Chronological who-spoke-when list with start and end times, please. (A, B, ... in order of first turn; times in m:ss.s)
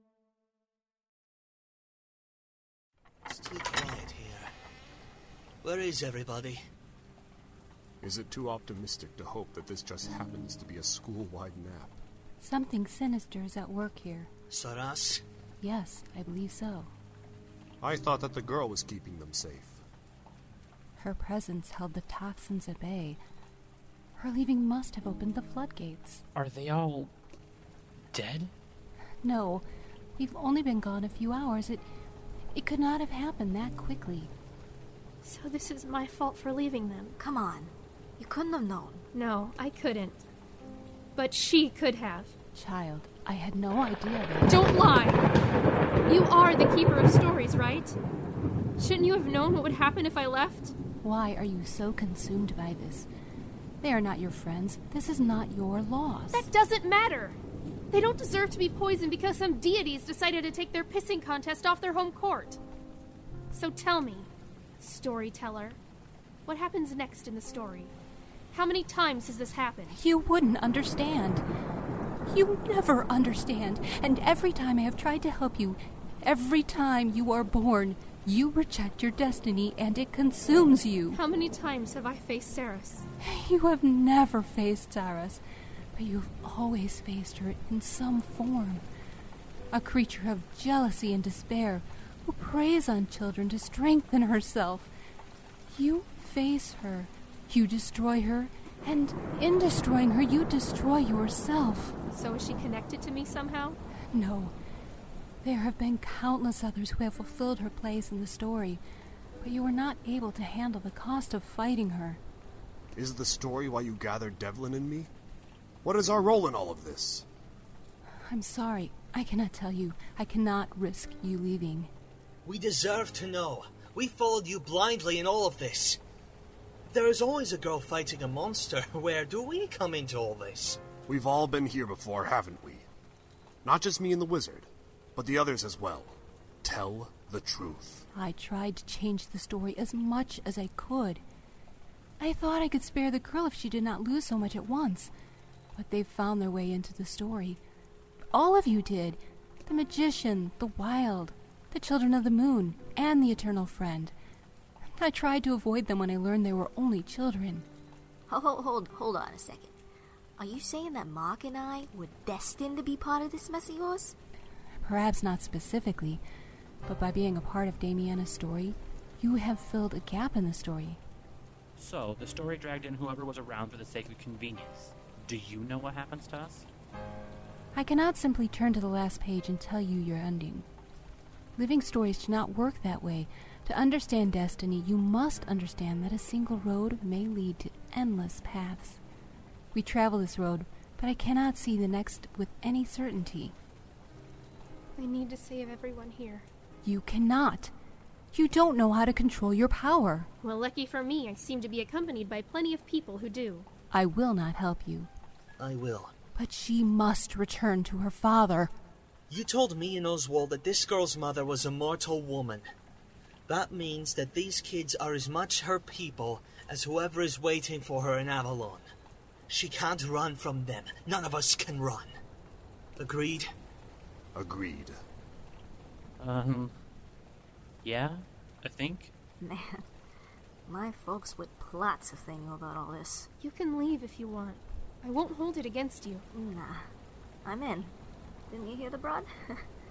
0:03.2-0:04.5 A
0:05.6-0:06.6 A
0:08.0-0:12.0 B
0:12.4-0:14.3 C
0:14.5-0:15.2 A
0:15.6-0:16.9 C
0:17.8-0:19.8 B
0:21.0-0:23.2 C
0:24.2-0:26.2 C
0:26.4-0:27.1 D
0:28.1-0:28.5 D
0:29.2-0:29.6 C
0:30.2-0:31.8 C
0:32.6-0:34.3 C
0:35.2-0:37.1 E
0:37.2-0:39.0 F
0:39.1-0:40.2 E
0:41.2-0:42.3 E
0:42.6-0:44.6 C
0:44.5-0:45.2 E
0:46.0-0:48.0 E
0:48.8-0:50.8 E
0:51.0-0:53.1 C
0:53.8-0:56.4 C
0:56.3-0:57.4 E
0:57.9-1:02.6 E
1:03.5-1:05.8 E
1:06.4-1:08.0 E
1:08.5-1:10.0 E
1:09.9-1:11.4 C
1:12.3-1:21.2 C
1:21.1-1:23.1 E
1:23.2-1:25.4 C
1:25.9-1:28.8 C
1:29.7-1:34.9 C
1:35.7-1:42.0 C
1:42.1-1:43.8 E
1:44.1-1:44.5 C
1:45.4-1:48.8 C
1:49.4-1:52.2 C
1:53.0-1:55.1 B
1:55.8-1:57.3 B
1:58.3-2:01.9 C
2:02.4-2:06.0 A
2:06.9-2:10.8 A
2:11.1-2:12.9 B
2:13.6-2:18.0 B
2:18.1-2:21.2 C
2:22.2-2:25.1 C
2:25.7-2:27.6 C
2:28.3-2:34.1 C
2:35.0-2:37.7 C
2:38.3-2:39.7 F
2:40.4-2:44.1 F
2:44.8-2:46.2 C
2:46.8-2:51.0 C
2:51.8-2:56.7 D
2:57.7-3:00.7 C
3:01.6-3:09.0 C
3:09.7-3:13.5 C
3:15.0-3:16.5 E
3:16.8-3:17.7 C
3:18.3-3:20.3 C
3:20.4-3:23.7 E
3:23.9-3:25.1 C
3:25.6-3:26.1 A
3:26.4-3:28.7 C
3:29.3-3:32.6 A
3:33.5-3:38.8 A
3:39.5-3:42.1 A
3:43.0-3:43.5 A
3:44.3-3:45.0 B
3:46.2-3:46.7 D
3:47.8-3:49.1 D
3:49.4-3:49.8 F
3:50.7-3:53.3 F
3:53.4-3:56.2 E
3:56.3-3:56.9 F
3:57.4-3:57.9 F
3:58.5-3:59.6 F